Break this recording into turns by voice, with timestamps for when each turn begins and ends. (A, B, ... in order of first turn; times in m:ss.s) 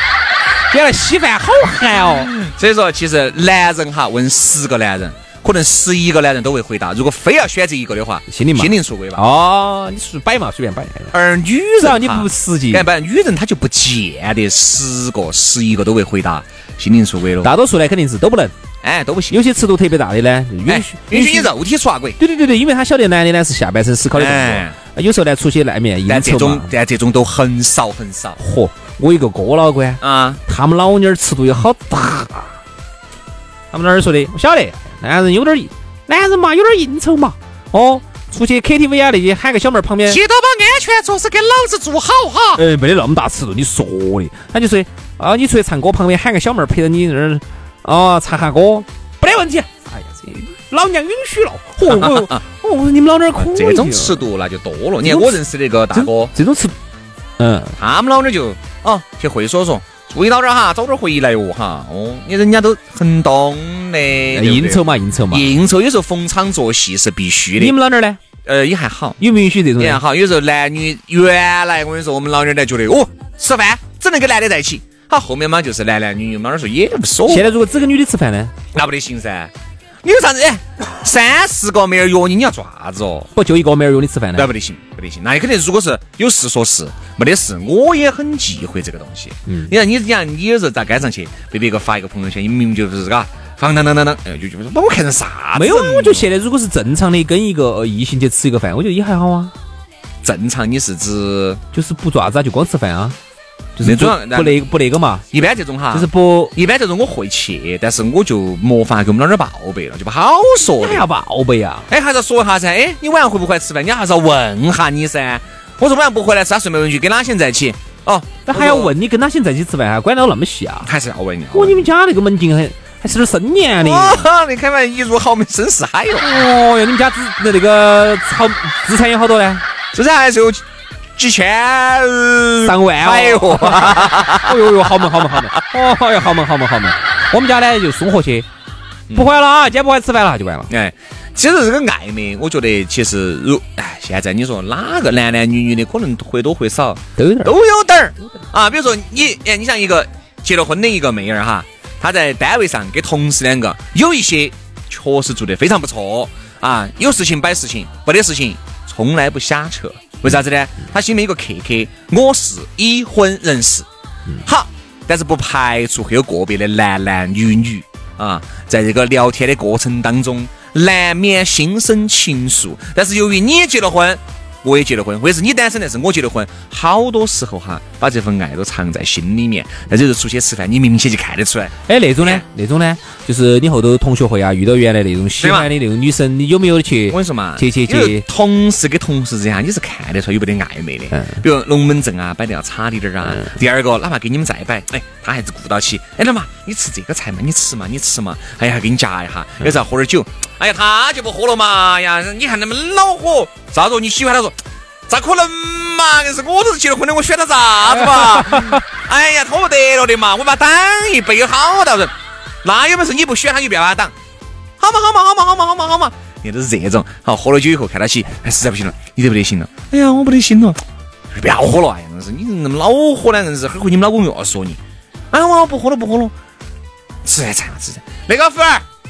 0:00.7-0:02.3 A
0:02.1-0:09.2 B
0:08.3-0:11.2 A
0:11.1-0:17.5 B
0:11.8-0:12.9 A
0:17.4-0:18.5 A
0:18.8-0:19.4 B
0:19.3-0:21.5 A
0:20.7-0:22.2 B
0:22.2-0:26.7 A
0:24.1-0:24.8 B
0:26.1-0:28.4 B
0:28.4-0:32.6 A
0:30.0-0:30.4 B
0:33.7-0:40.2 A
0:40.1-0:42.6 B
0:42.6-0:54.2 A
0:51.8-0:52.4 B
0:53.4-0:56.3 B
0:55.0-0:56.8 A
0:57.4-0:57.8 A
0:57.8-1:07.8 B
1:04.3-1:05.5 A
1:07.6-1:08.2 A
1:08.4-1:09.2 B
1:09.2-1:10.0 A
1:09.8-1:17.5 B
1:17.3-1:18.5 A
1:18.7-1:19.5 B
1:20.0-1:23.3 B
1:23.4-1:24.5 A
1:24.4-1:36.3 B
1:35.6-1:39.5 A
1:40.2-1:41.6 B
1:41.7-1:43.2 A
1:43.8-1:45.3 A
1:43.8-1:44.6 B
1:45.3-1:51.1 B
1:45.9-1:46.5 A
1:50.8-1:51.9 A
1:51.9-1:58.9 B
1:58.5-2:00.9 A
2:00.8-2:01.8 B
2:01.5-2:04.3 A
2:03.8-2:06.3 B
2:06.2-2:09.6 A
2:09.9-2:15.5 B
2:12.6-2:18.5 A
2:19.1-2:20.7 A
2:20.7-2:43.9 B
2:27.2-2:27.5 A
2:44.4-3:02.4 B
3:01.9-3:08.2 A
3:05.4-3:05.7 B
3:07.1-3:34.1 B
3:11.1-3:11.4 A
3:28.0-3:28.8 A
3:34.8-3:44.8 B
3:45.3-3:46.3 B
3:47.2-3:48.8 B